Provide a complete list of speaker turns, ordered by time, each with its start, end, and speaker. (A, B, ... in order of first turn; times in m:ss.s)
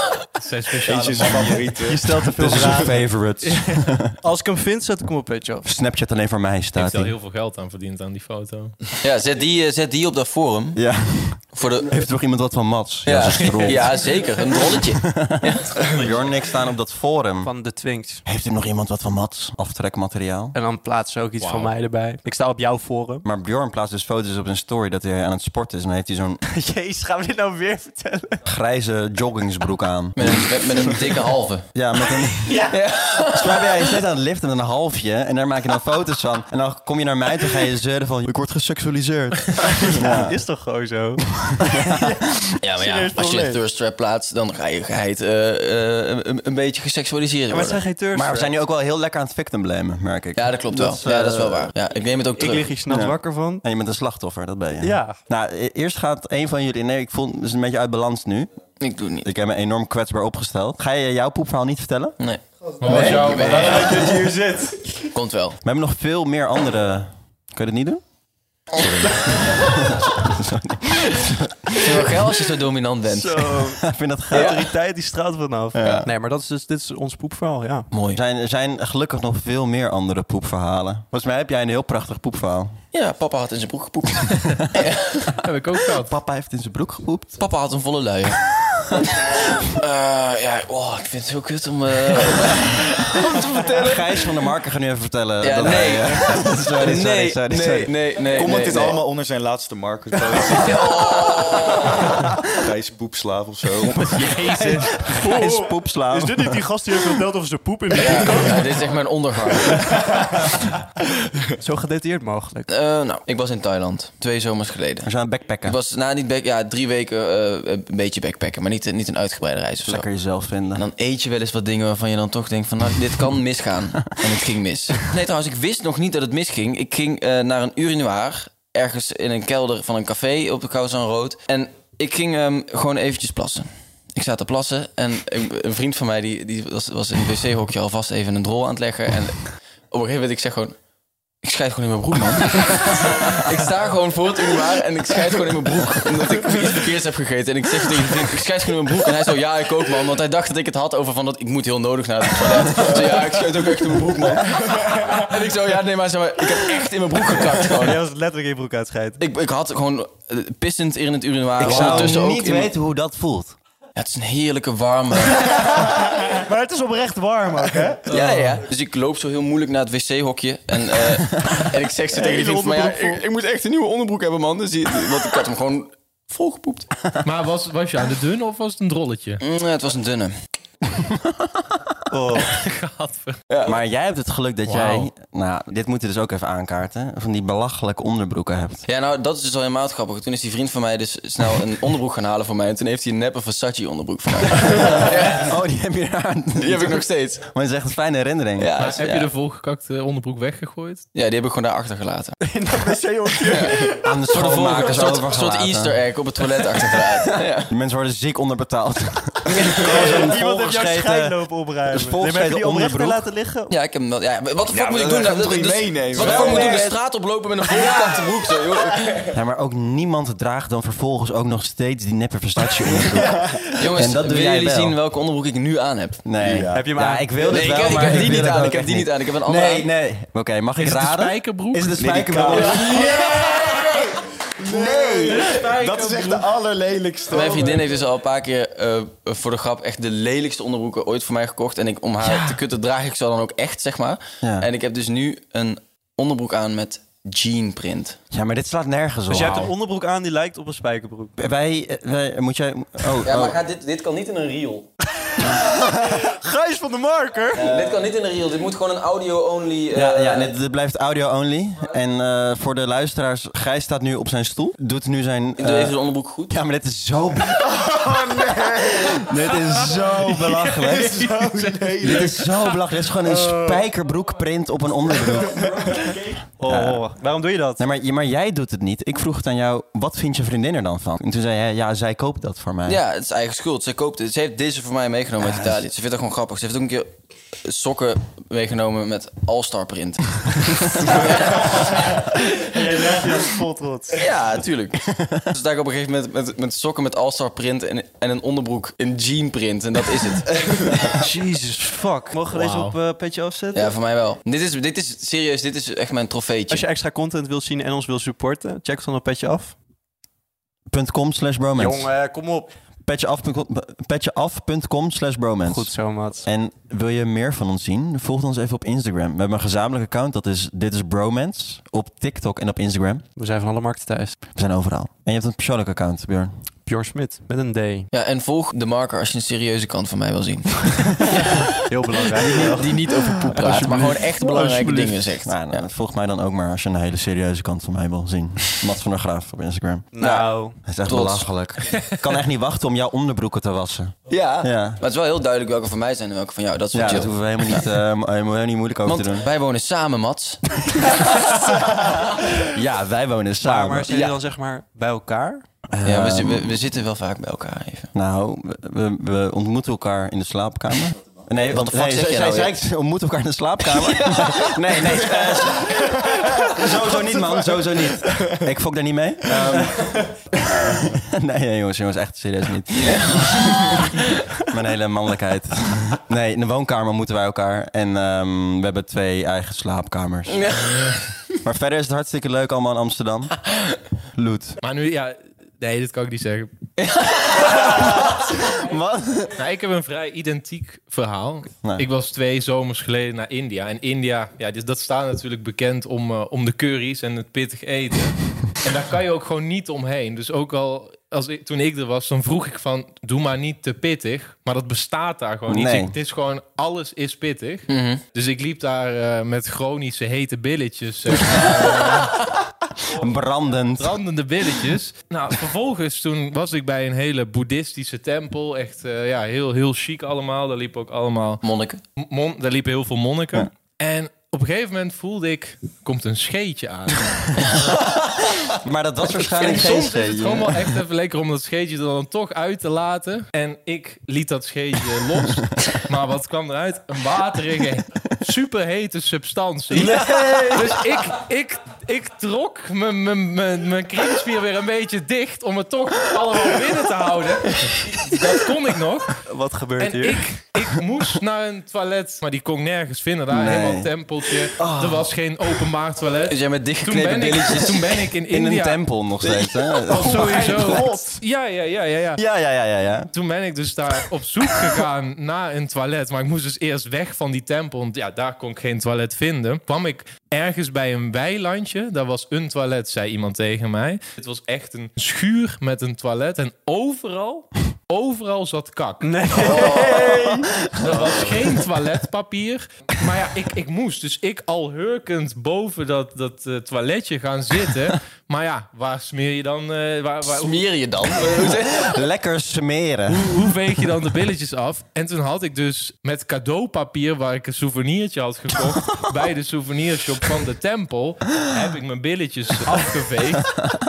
0:00.3-0:01.8 A
0:00.8-0:02.8 B
0:01.8-0:05.7 C
0:02.1-0:04.2 D
0:05.6-0:07.1 D
0:06.8-0:08.8 A
0:09.0-0:10.8 E
0:10.8-0:17.5 D
0:11.5-0:12.0 E
0:13.0-0:15.8 E
0:13.4-0:13.8 A
0:17.4-0:18.2 C
0:18.2-0:20.5 D
0:20.5-0:23.2 C
0:21.4-0:21.7 A
0:23.2-0:26.4 D
0:26.5-0:28.4 C
0:28.4-0:31.1 D
0:30.2-0:31.7 E
0:31.7-0:40.4 D
0:32.4-0:32.8 C
0:32.7-0:33.8 E
0:39.7-0:42.2 C
0:41.4-0:42.5 D
0:42.6-0:47.8 E
0:42.8-0:43.6 C
0:47.5-0:48.5 C
0:48.1-0:51.7 D
0:50.4-0:52.7 E
0:52.4-0:53.6 C
0:52.9-0:58.5 D
0:54.8-0:55.2 C
0:58.8-0:59.3 E
0:59.2-1:02.2 D
1:02.2-1:04.0 E
1:02.8-1:05.1 C
1:02.8-1:04.0 A
1:05.1-1:05.6 E
1:05.6-1:08.0 D
1:08.8-1:09.4 B
1:09.6-1:12.1 D
1:11.8-1:13.6 E
1:13.1-1:17.9 C
1:13.6-1:14.6 D
1:14.3-1:14.6 E
1:15.7-1:16.1 D
1:17.9-1:18.2 E
1:18.1-1:22.8 D
1:22.9-1:25.4 E
1:25.3-1:26.2 A
1:25.9-1:27.3 D
1:27.4-1:28.4 E
1:29.5-1:34.4 E
1:33.6-1:38.0 D
1:35.4-1:39.0 E
1:38.3-1:44.4 B
1:40.4-1:42.1 E
1:44.1-1:45.0 A
1:44.6-1:47.0 D
1:44.8-1:48.9 C
1:47.9-1:49.9 E
1:49.7-1:49.9 C
1:51.6-1:52.7 C
1:52.7-1:55.1 E
1:55.0-1:55.8 D
1:55.6-2:00.1 E
1:59.8-2:00.8 D
2:00.7-2:20.8 E
2:21.4-2:38.0 E
2:37.6-2:39.2 C
2:39.2-2:42.7 E
2:41.6-2:43.6 D
2:41.6-2:42.2 C
2:44.0-2:45.6 E
2:45.3-2:48.1 C
2:48.1-2:56.9 E
2:48.1-2:48.6 A
2:52.1-2:53.2 C
2:57.2-2:59.4 A
2:59.4-3:00.4 E
3:00.9-3:01.9 D
3:02.1-3:02.6 C
3:02.4-3:03.4 A
3:03.5-3:03.8 E
3:03.6-3:08.8 D
3:04.7-3:05.1 A
3:08.9-3:15.5 E
3:14.7-3:18.7 D
3:16.6-3:17.4 E
3:18.6-3:19.3 E
3:18.8-3:21.0 A
3:21.1-3:22.4 E
3:22.4-3:24.1 C
3:23.5-3:27.7 E
3:23.9-3:26.0 D
3:27.3-3:33.3 D
3:29.7-3:33.7 C
3:33.7-3:39.3 E
3:34.7-3:36.9 B
3:36.1-3:36.9 D
3:39.2-3:45.0 D
3:43.7-3:46.2 E
3:46.2-3:53.2 D
3:46.4-3:47.0 B
3:46.7-3:48.4 C
3:47.4-3:49.9 E
3:50.8-3:52.0 A
3:52.0-3:57.9 B
3:54.7-3:55.6 D
3:55.3-3:56.5 A
3:57.3-4:08.2 E
4:04.4-4:04.7 D
4:08.3-4:09.7 D
4:09.3-4:11.4 C
4:11.4-4:13.6 D
4:13.2-4:14.9 E
4:15.4-4:17.7 C
4:15.5-4:16.2 D
4:17.5-4:20.5 E
4:19.9-4:26.0 D
4:25.6-4:26.6 E
4:26.5-4:28.0 D
4:27.6-4:29.2 B
4:28.9-4:31.2 D
4:29.9-4:32.4 A
4:30.8-4:32.6 B
4:32.0-4:37.0 D
4:36.6-4:37.8 C
4:37.8-4:43.0 D
4:42.9-4:47.1 E
4:45.4-4:45.8 D
4:47.6-4:51.9 E
4:51.1-4:54.3 C
4:54.1-5:00.6 E
4:55.0-4:55.5 D
5:01.1-5:03.9 C
5:02.5-5:03.0 A
5:03.7-5:06.8 E
5:06.7-5:09.8 C
5:10.9-5:12.1 D
5:11.8-5:12.7 C
5:13.0-5:15.9 D
5:15.6-5:16.4 C
5:16.4-5:23.2 D
5:23.4-5:24.4 C
5:24.6-5:26.5 D
5:26.8-5:28.1 C
5:28.1-5:31.6 E
5:31.4-5:35.3 C
5:32.4-5:35.9 E
5:35.4-5:40.1 D
5:40.1-5:40.8 C
5:40.2-5:40.5 E
5:40.8-5:45.0 D
5:41.1-5:41.5 E
5:44.3-5:47.9 E
5:46.9-5:49.5 D
5:49.0-5:51.7 E
5:52.6-5:54.1 D
5:53.6-5:55.6 C
5:54.1-5:54.4 E
5:55.9-5:56.8 D
5:56.0-5:58.1 E
5:58.1-6:20.7 D
6:01.6-6:02.7 E
6:04.1-6:05.4 E
6:13.0-6:14.0 E
6:20.5-6:21.2 E
6:21.6-6:23.7 D
6:24.4-6:24.8 D
6:24.8-6:26.7 A
6:27.0-6:28.1 E
6:27.9-6:29.6 D
6:29.6-6:52.5 A
6:45.7-6:46.1 D
6:47.9-6:48.2 E
6:53.0-6:54.2 D
6:54.0-7:01.6 A
7:01.6-7:02.0 E
7:02.2-7:07.6 A
7:07.9-7:10.9 D
7:09.4-7:29.4 A
7:20.0-7:20.8 C
7:20.0-7:20.8 D
7:29.4-7:30.6 C
7:30.0-7:39.0 A
7:33.5-7:34.1 D
7:34.8-7:35.3 D
7:36.4-7:38.2 E
7:38.5-7:40.7 D
7:39.5-7:41.4 C
7:40.1-7:42.4 A
7:42.4-7:43.3 D
7:43.3-8:00.1 A
7:59.2-8:01.1 C
8:00.9-8:11.6 A
8:10.4-8:12.2 E
8:11.9-8:13.9 D
8:13.3-8:23.7 A